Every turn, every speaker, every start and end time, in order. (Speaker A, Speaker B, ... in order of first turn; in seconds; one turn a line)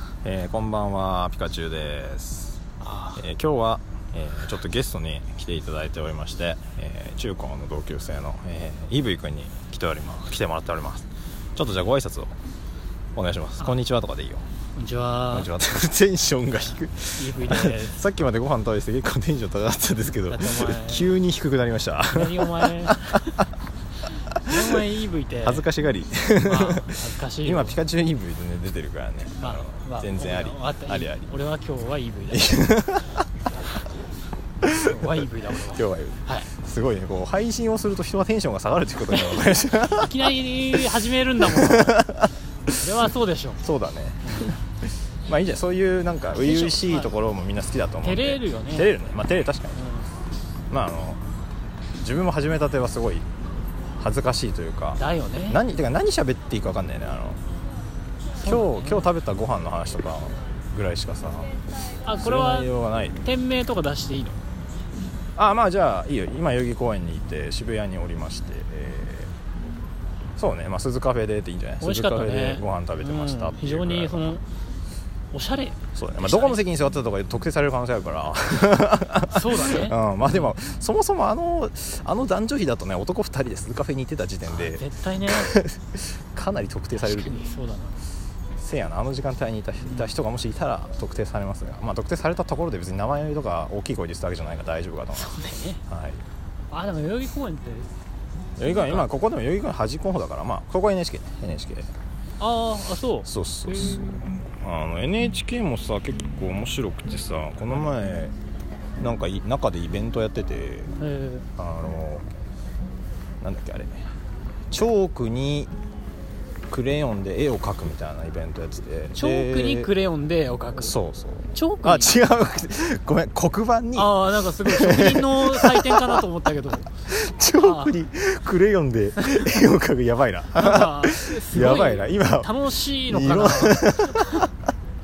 Speaker A: 0.2-2.6
Speaker B: 2.8-3.3
Speaker A: 3.2-12.3
Speaker A: 13.2-14.4
Speaker B: 14.8-15.5
Speaker A: 15.3-23.2
Speaker B: 17.2-18.0
Speaker B: 20.3-21.2
Speaker B: 22.1-23.4
Speaker B: 24.3-25.7
Speaker A: 24.4-24.7
Speaker A: 25.4-31.3
Speaker B: 26.4-27.8
Speaker B: 29.4-32.7
Speaker A: 32.3-33.2
Speaker A: 34.6-40.8
Speaker B: 34.7-36.5
Speaker B: 39.9-42.0
Speaker A: 41.4-42.9
Speaker B: 42.7-43.6
Speaker A: 43.6-49.8
Speaker B: 44.2-44.6
Speaker B: 46.4-47.1
Speaker B: 48.0-48.9
Speaker B: 49.8-50.1
Speaker A: 50.7-51.2
Speaker A: 52.0-53.3
Speaker A: 54.0-57.4
Speaker B: 55.0-55.6
Speaker A: 58.4-61.6
Speaker B: 58.4-59.1
Speaker B: 62.0-62.7
Speaker A: 62.1-63.2
Speaker B: 63.2-64.4
Speaker A: 65.4-69.3
Speaker A: 70.4-74.4
Speaker B: 71.8-74.4
Speaker B: 75.3-76.6
Speaker A: 76.0-87.5
Speaker B: 79.3-80.5
Speaker B: 84.5-85.6
Speaker B: 87.0-88.0
Speaker A: 88.6-95.4
Speaker B: 89.8-90.1
Speaker B: 95.2-95.8
Speaker A: 95.9-96.2
Speaker B: 96.7-98.0
Speaker A: 98.6-101.9
Speaker B: 98.7-99.1
Speaker B: 102.4-104.3
Speaker A: 103.2-108.3
Speaker A: 109.0-111.0
Speaker B: 111.0-111.5
Speaker A: 111.6-112.3
Speaker A: 113.4-114.1
Speaker A: 114.7-115.7
Speaker A: 116.7-119.9
Speaker B: 119.2-121.0
Speaker A: 120.8-126.2
Speaker B: 121.5-122.2
Speaker B: 124.0-126.9
Speaker A: 127.1-134.5
Speaker B: 127.5-128.0
Speaker B: 129.2-129.5
Speaker B: 130.6-134.4